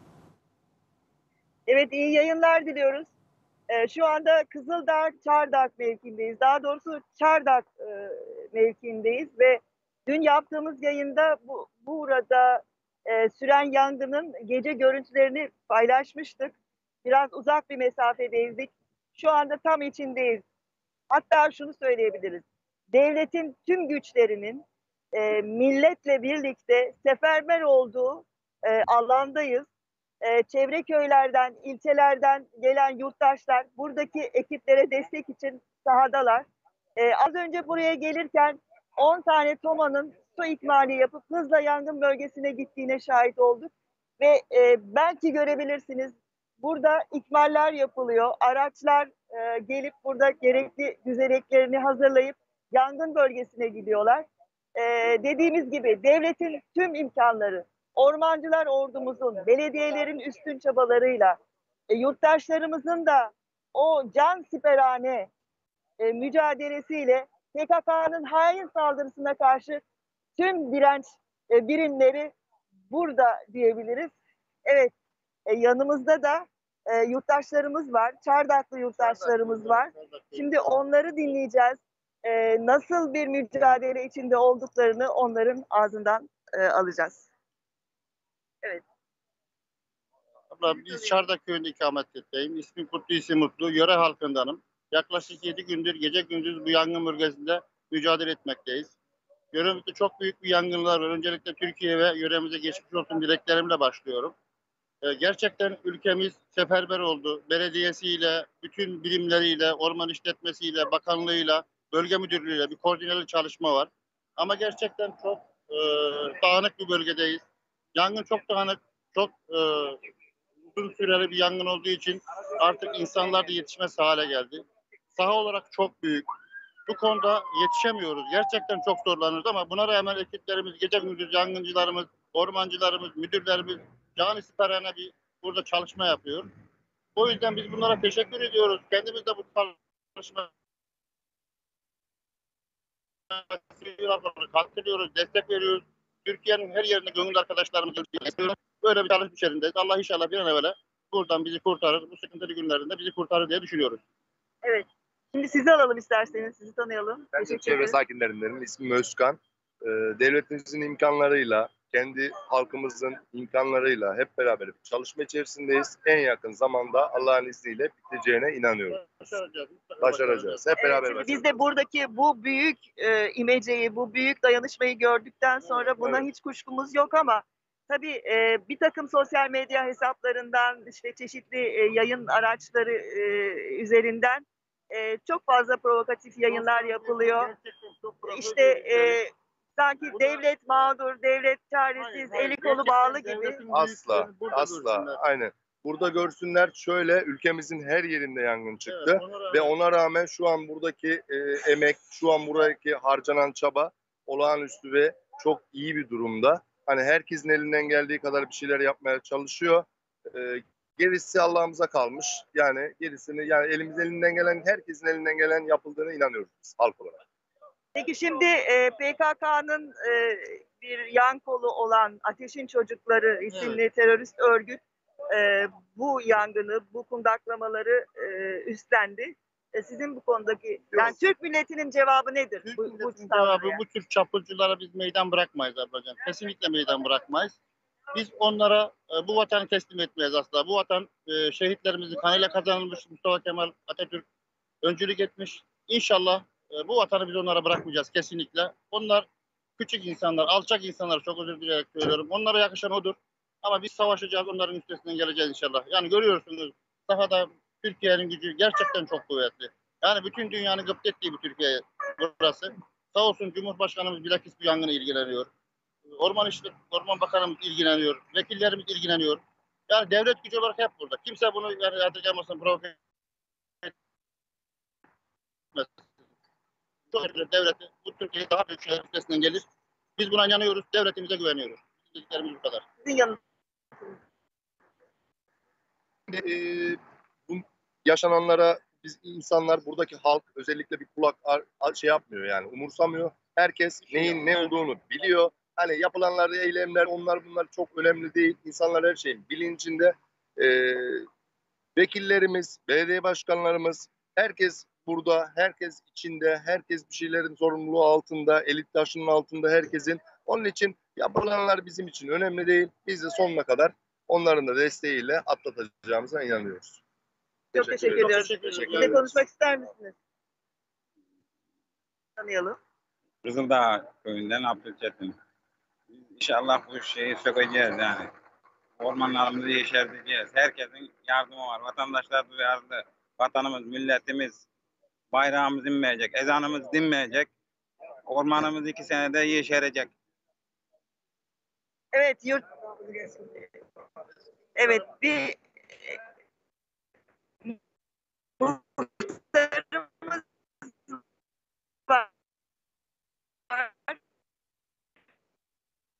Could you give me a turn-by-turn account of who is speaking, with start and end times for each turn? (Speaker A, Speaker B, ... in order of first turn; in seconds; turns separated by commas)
Speaker A: 1.7-3.1, Speaker A: 3.7-20.4, Speaker A: 21.1-29.7, Speaker A: 30.2-61.4, Speaker A: 61.9-65.3, Speaker A: 66.0-69.8, Speaker A: 70.4-72.3, Speaker A: 72.9-74.1, Speaker A: 74.7-74.9, Speaker A: 75.5-87.3, Speaker B: 79.0-80.5, Speaker B: 90.5-99.0, Speaker B: 99.5-104.3, Speaker B: 105.0-117.4, Speaker B: 118.0-120.0, Speaker B: 120.7-126.3, Speaker B: 126.9-136.5, Speaker B: 137.2-140.5, Speaker B: 143.3-154.0, Speaker A: 154.6-158.0, Speaker C: 157.3-169.0, Speaker B: 168.9-170.7, Speaker C: 170.0-171.5, Speaker A: 170.8-187.5, Speaker B: 175.6-176.3, Speaker B: 186.5-189.2, Speaker A: 188.2-193.6, Speaker B: 190.1-190.5, Speaker B: 192.0-195.2, Speaker C: 193.7-217.2, Speaker B: 198.9-199.8, Speaker A: 217.9-224.8, Speaker B: 223.5-223.8, Speaker A: 225.3-233.8, Speaker B: 232.6-237.6, Speaker B: 238.1-244.2, Speaker B: 244.8-265.5, Speaker B: 266.1-273.0, Speaker B: 275.7-276.0, Speaker B: 277.1-279.6, Speaker B: 280.2-282.8, Speaker A: 283.0-283.4, Speaker C: 286.3-301.3, Speaker C: 302.0-317.0, Speaker A: 317.7-320.1, Speaker C: 317.8-319.1, Speaker B: 318.2-319.4, Speaker A: 322.4-322.8, Speaker D: 323.4-325.4, Speaker D: 326.3-328.3, Speaker D: 329.0-334.6, Speaker D: 335.3-337.5, Speaker D: 338.3-340.1, Speaker A: 342.1-343.7, Speaker A: 344.8-345.6, Speaker A: 348.6-351.2, Speaker A: 353.7-354.2